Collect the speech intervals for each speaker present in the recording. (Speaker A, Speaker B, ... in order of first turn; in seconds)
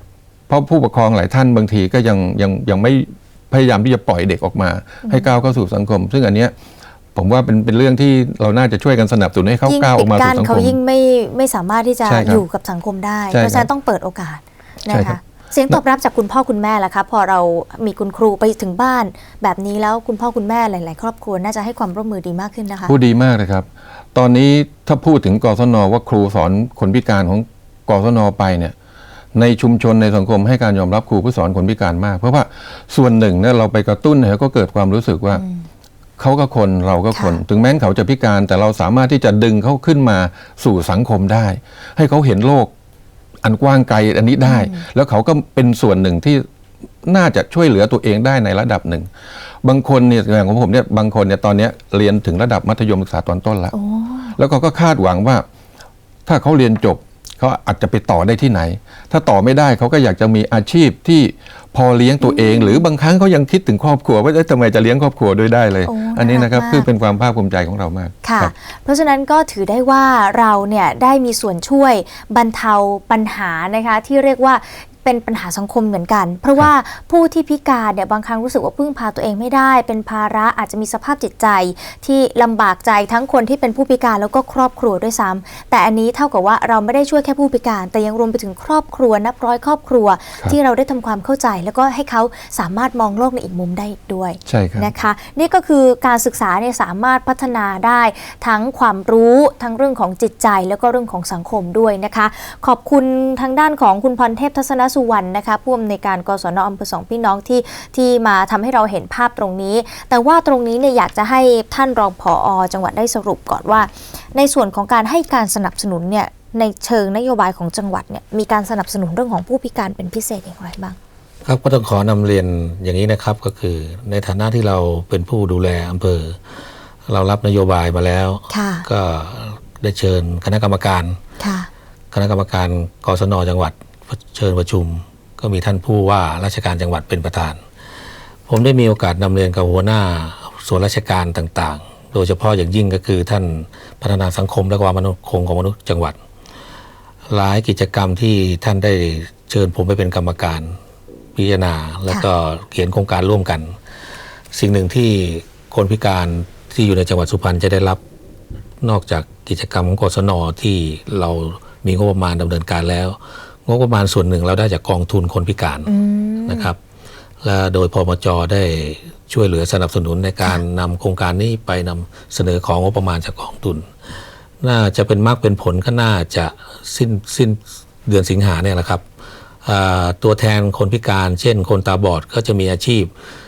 Speaker A: 0.5-6.5, 7.1-10.8, 12.1-12.4, 13.3-13.7, 14.9-15.2, 22.9-28.8, 29.3-35.4, 36.2-42.7, 43.4-46.5, 47.0-49.1, 49.6-53.7, 54.4-55.5, 56.2-68.5, 94.5-94.9
Speaker B: 9.7-22.9, 35.3-35.6, 37.1-37.4, 44.5-44.8, 53.7-54.4, 62.2-62.8, 65.9-66.9, 68.2-121.0, 128.5-128.8, 131.4-131.7, 165.9-166.7
Speaker C: 121.5-126.4, 127.1-131.2, 132.1-137.6, 138.5-146.2, 147.3-150.8, 151.3-153.8, 154.5-158.0, 158.8-165.9, 166.5-166.8, 167.4-173.9, 174.6-179.0, 179.6-183.1